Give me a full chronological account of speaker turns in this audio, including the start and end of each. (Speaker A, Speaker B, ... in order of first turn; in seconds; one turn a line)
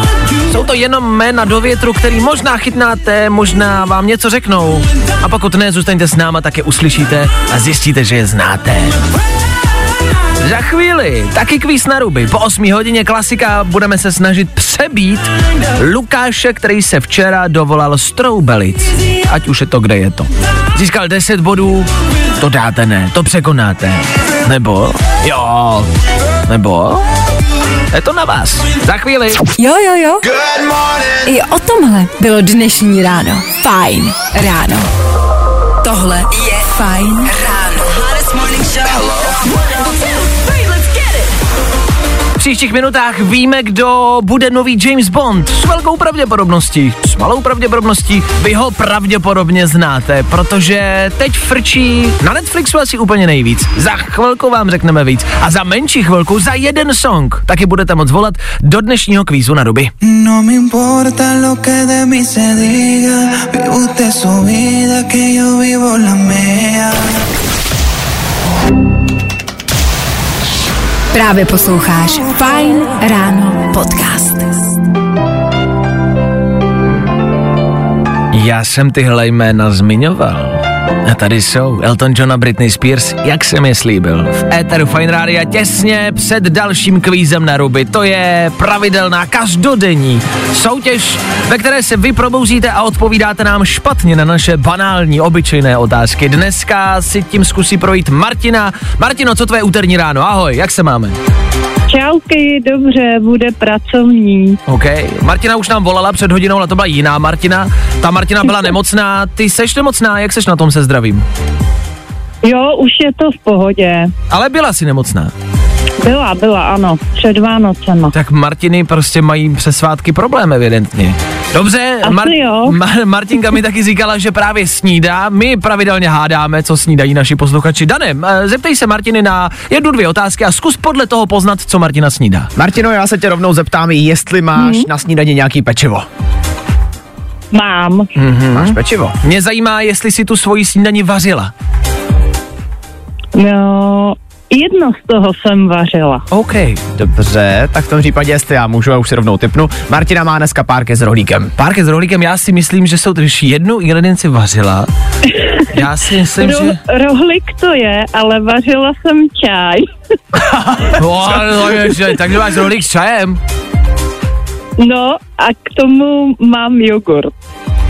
Speaker A: 0.4-9.0
Speaker A: 10.4-25.9
Speaker A: 26.5-27.0
Speaker A: 27.9-29.4
Speaker B: 29.6-30.2
Speaker B: 31.2-34.9
Speaker B: 35.8-41.3
Speaker A: 42.4-59.9
Speaker C: 60.0-67.1
Speaker B: 71.1-74.5
Speaker A: 78.3-101.2
Speaker D: 101.9-104.6
Speaker A: 104.7-111.2
Speaker D: 112.4-114.1
Speaker A: 114.3-115.3
Speaker D: 116.0-118.1
Speaker A: 118.1-132.5
Speaker D: 122.0-122.8
Speaker E: 132.6-136.1
Speaker D: 134.6-134.9
Speaker D: 137.5-138.1
Speaker A: 138.1-141.5
Speaker E: 138.5-139.1
Speaker D: 143.3-146.2
Speaker A: 146.3-146.8
Speaker E: 146.9-151.5
Speaker A: 151.6-154.9
Speaker D: 155.2-159.9
Speaker A: 155.7-156.8
Speaker A: 160.3-163.4
Speaker D: 164.8-167.3